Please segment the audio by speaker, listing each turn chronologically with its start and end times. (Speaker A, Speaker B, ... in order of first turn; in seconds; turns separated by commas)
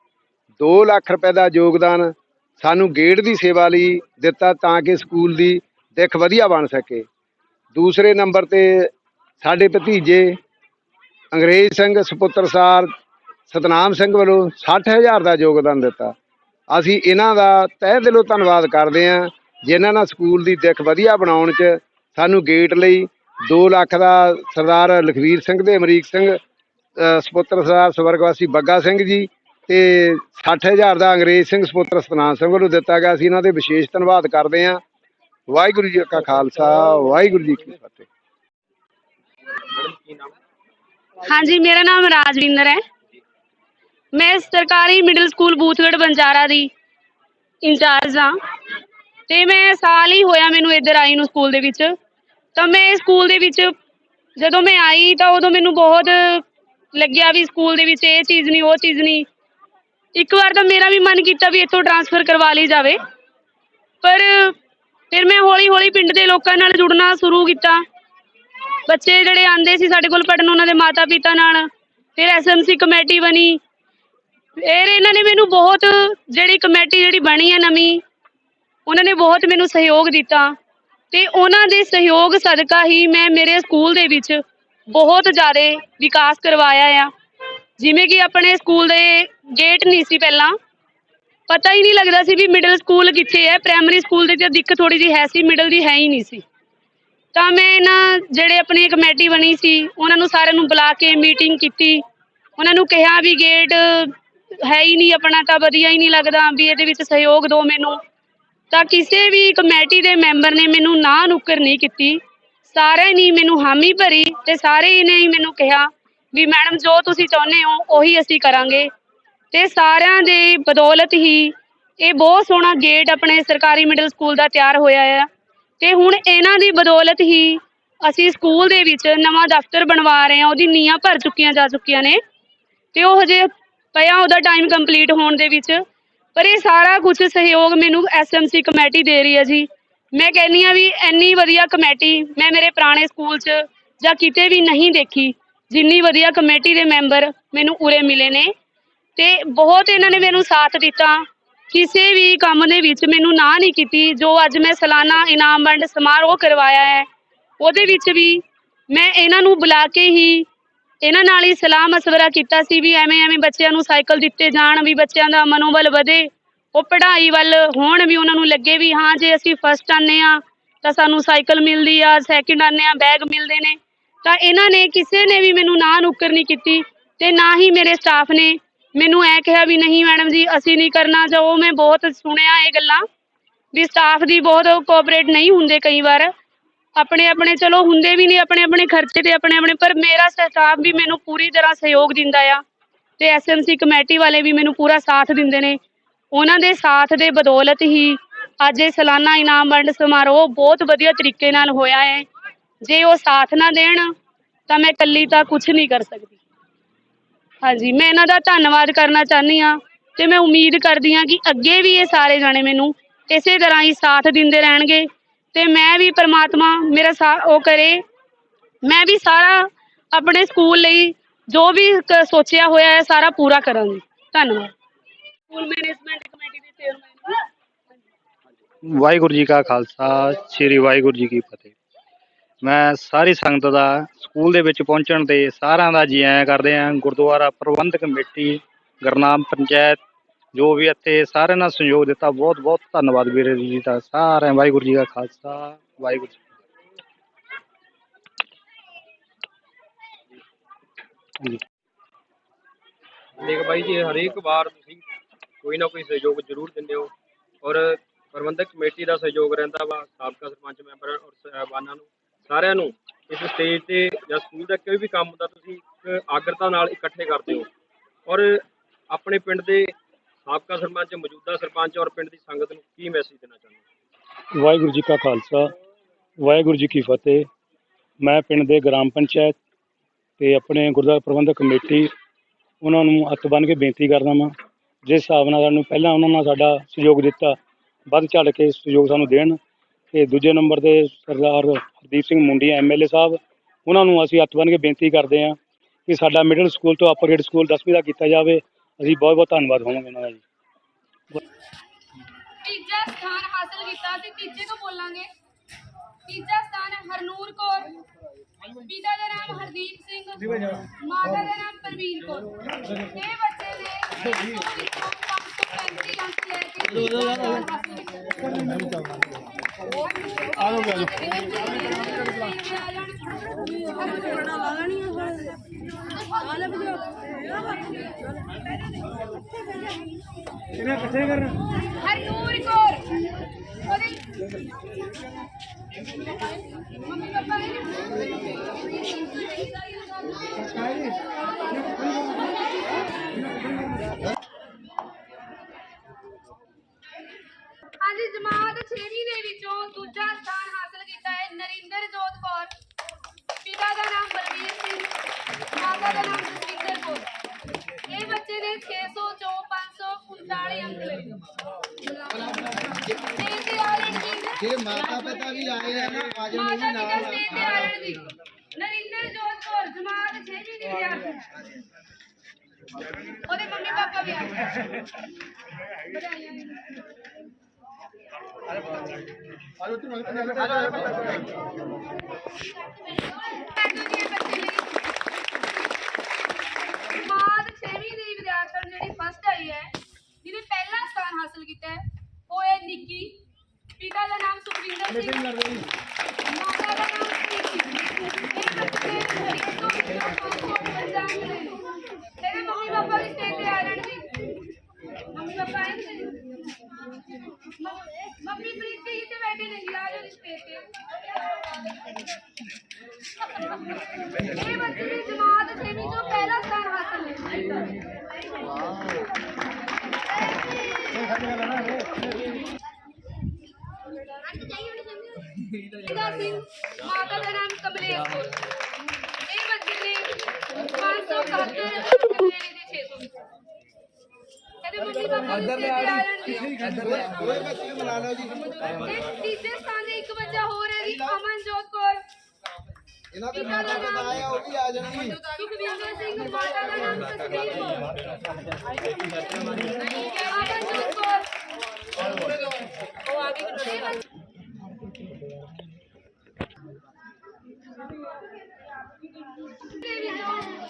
Speaker A: 0.6-7.1, Speaker A: 7.7-8.9, Speaker A: 9.4-10.3, Speaker A: 11.3-12.9, Speaker A: 13.5-16.1, Speaker A: 16.7-26.4, Speaker A: 27.0-34.8, Speaker A: 35.5-38.1, Speaker B: 39.6-40.4, Speaker C: 41.3-42.8, Speaker C: 44.1-46.7, Speaker C: 47.6-48.4, Speaker C: 49.3-51.9, Speaker C: 52.6-53.7, Speaker C: 54.4-56.4, Speaker C: 56.9-59.3, Speaker C: 60.1-63.0, Speaker C: 64.0-64.6, Speaker C: 65.1-67.8, Speaker C: 68.9-73.6, Speaker C: 74.6-78.0, Speaker C: 78.9-80.5, Speaker C: 81.1-87.1, Speaker C: 87.8-90.5, Speaker C: 91.5-96.4, Speaker C: 97.3-102.0, Speaker C: 102.6-108.0, Speaker C: 108.7-118.9, Speaker C: 119.5-125.3, Speaker C: 125.8-132.2, Speaker C: 132.9-135.8, Speaker C: 136.3-148.5, Speaker C: 149.2-157.1, Speaker C: 157.6-160.5, Speaker C: 161.0-183.0, Speaker C: 183.7-186.3, Speaker C: 187.0-192.6, Speaker C: 193.2-195.8, Speaker C: 196.3-202.2, Speaker C: 202.8-204.1, Speaker C: 204.7-206.4, Speaker C: 207.6-218.0, Speaker C: 218.8-224.7, Speaker C: 225.5-227.5, Speaker D: 228.9-231.7, Speaker D: 232.6-240.0, Speaker D: 240.5-246.4, Speaker B: 253.4-255.0, Speaker B: 255.6-257.1, Speaker B: 257.6-267.7, Speaker B: 268.3-269.9, Speaker B: 270.5-273.8, Speaker E: 274.6-275.7, Speaker E: 276.4-277.5, Speaker E: 278.2-279.6, Speaker E: 280.4-282.1, Speaker E: 282.8-284.5, Speaker E: 285.1-287.6, Speaker E: 288.1-289.6, Speaker E: 290.1-300.4, Speaker C: 302.6-305.3, Speaker C: 306.3-307.9, Speaker C: 308.8-319.2, Speaker C: 320.0-325.2, Speaker C: 326.1-327.1, Speaker C: 327.7-328.1, Speaker C: 331.1-333.1, Speaker C: 333.8-334.3, Speaker C: 337.0-343.8, Speaker C: 348.0-352.7, Speaker C: 353.6-355.1, Speaker C: 355.8-357.3, Speaker C: 358.1-361.4, Speaker A: 362.6-363.0, Speaker C: 362.8-364.7, Speaker A: 364.6-368.0, Speaker C: 366.5-368.2, Speaker C: 368.8-371.4, Speaker C: 373.4-374.6, Speaker C: 376.1-376.8, Speaker A: 379.8-381.5, Speaker C: 383.1-384.9, Speaker C: 387.1-389.9, Speaker C: 390.4-393.4, Speaker C: 394.0-395.9, Speaker C: 396.5-398.0, Speaker C: 398.5-401.8, Speaker C: 402.4-404.3, Speaker C: 405.3-406.4, Speaker C: 407.8-410.9, Speaker C: 414.4-417.9, Speaker C: 425.9-428.6, Speaker C: 429.5-433.3, Speaker C: 434.8-437.0, Speaker A: 436.9-439.0, Speaker C: 438.8-442.2, Speaker A: 443.3-445.4, Speaker C: 443.5-444.4, Speaker C: 445.5-448.1, Speaker C: 449.6-451.5, Speaker C: 453.6-454.0, Speaker C: 459.9-460.7